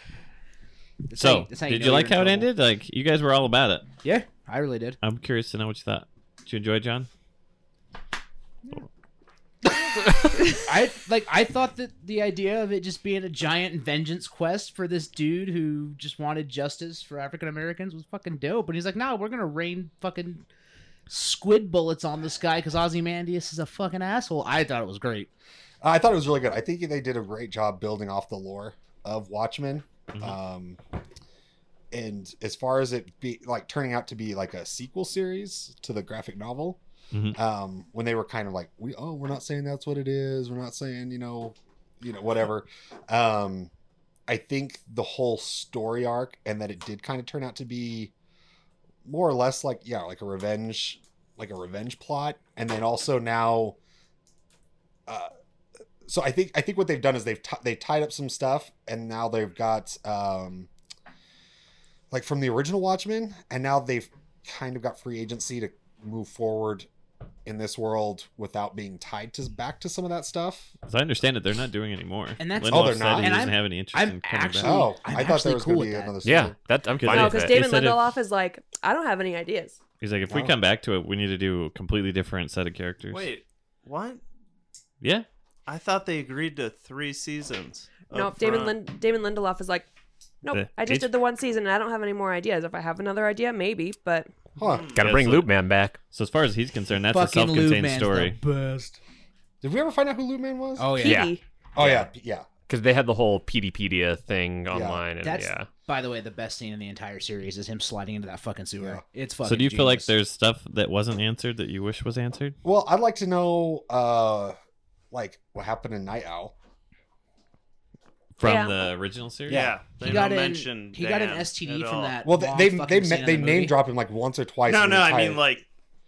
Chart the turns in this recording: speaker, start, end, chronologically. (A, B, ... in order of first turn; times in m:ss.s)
0:01.1-0:02.5 A
0:01.2-0:03.9 B
0:04.0-0:05.0 A
0:05.0-0:07.1 B
0:10.5-0:20.5 A
0:21.1-0:25.3 A
0:25.8-0:30.8 C
0:31.9-0:36.8 C
0:37.1-0:37.4 B
0:37.3-0:43.7 C
0:44.3-0:48.1 C
0:49.0-0:53.8 C
0:56.0-1:00.7 C
1:02.1-1:06.9 C
1:07.4-1:10.7 C
1:10.9-1:14.8 B
1:12.4-1:16.1 A
1:12.7-1:13.5 C
1:14.6-1:16.6 C
1:16.2-1:17.6 D
1:17.0-1:18.1 B
1:17.1-1:19.8 E
1:20.0-1:23.3 B
1:20.3-1:20.6 C
1:23.1-1:24.2 F
1:25.0-1:25.3 B
1:25.7-1:28.8 F
1:28.1-1:29.9 E
1:30.4-1:34.3 E
1:30.5-1:31.1 B
1:34.6-1:34.9 C
1:34.6-1:35.2 F
1:34.9-1:36.0 D
1:35.0-1:35.5 B
1:36.1-1:38.4 B
1:37.1-1:39.0 A
1:39.6-1:41.0 C
1:40.8-1:41.3 A
1:41.0-1:41.4 E
1:41.0-1:41.9 D
1:41.8-1:42.5 C
1:42.7-1:45.7 D
1:44.7-1:45.0 C
1:45.2-1:50.2 A
1:49.4-1:52.6 B
1:52.6-1:54.6 C
1:55.1-1:56.5 C
1:58.4-2:00.2 B
1:58.4-1:58.9 E
1:59.5-2:02.2 F
1:59.5-2:03.8 A
2:02.2-2:05.4 C
2:04.7-2:05.7 F